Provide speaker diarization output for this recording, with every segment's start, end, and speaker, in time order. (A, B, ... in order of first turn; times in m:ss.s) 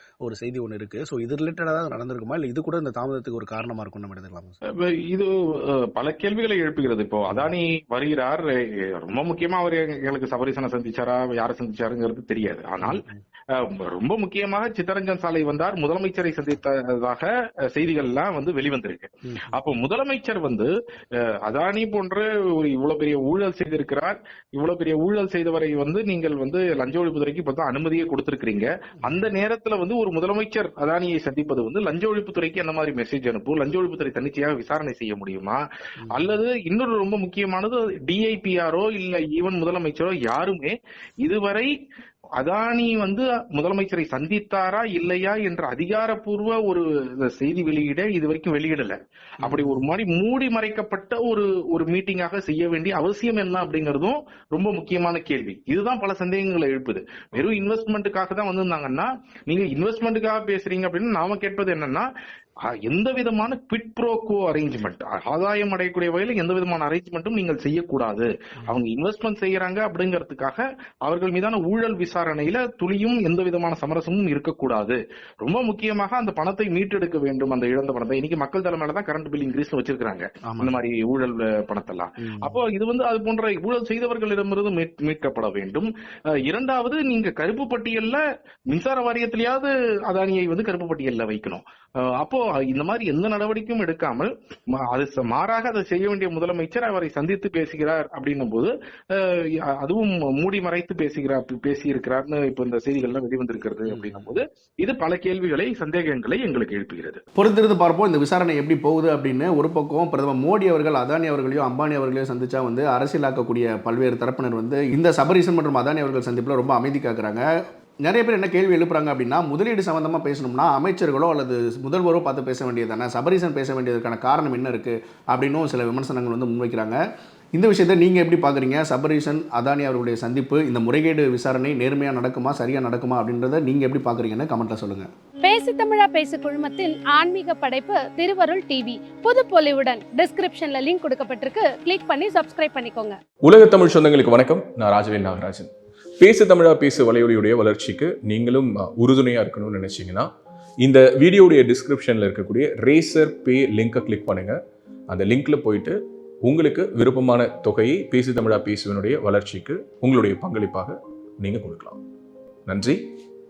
0:00.2-0:04.6 A
0:04.7-0:35.6 B
0:12.8-0:13.2 A
0:19.2-0:19.6 A
0:29.0-0:29.3 A
0:36.0-0:36.3 A
0:36.1-0:41.7 B
0:42.4-1:02.1 B
0:49.4-0:49.9 A
0:57.3-0:57.6 A
1:02.7-1:47.2 B
1:20.4-1:20.8 A
1:22.2-1:22.6 A
1:43.9-1:44.3 A
1:47.4-1:57.4 A
1:58.0-2:07.0 A
2:07.6-2:15.1 A
2:15.4-2:23.2 C
2:23.4-2:30.3 D
2:30.8-2:42.0 D
2:42.6-2:43.0 D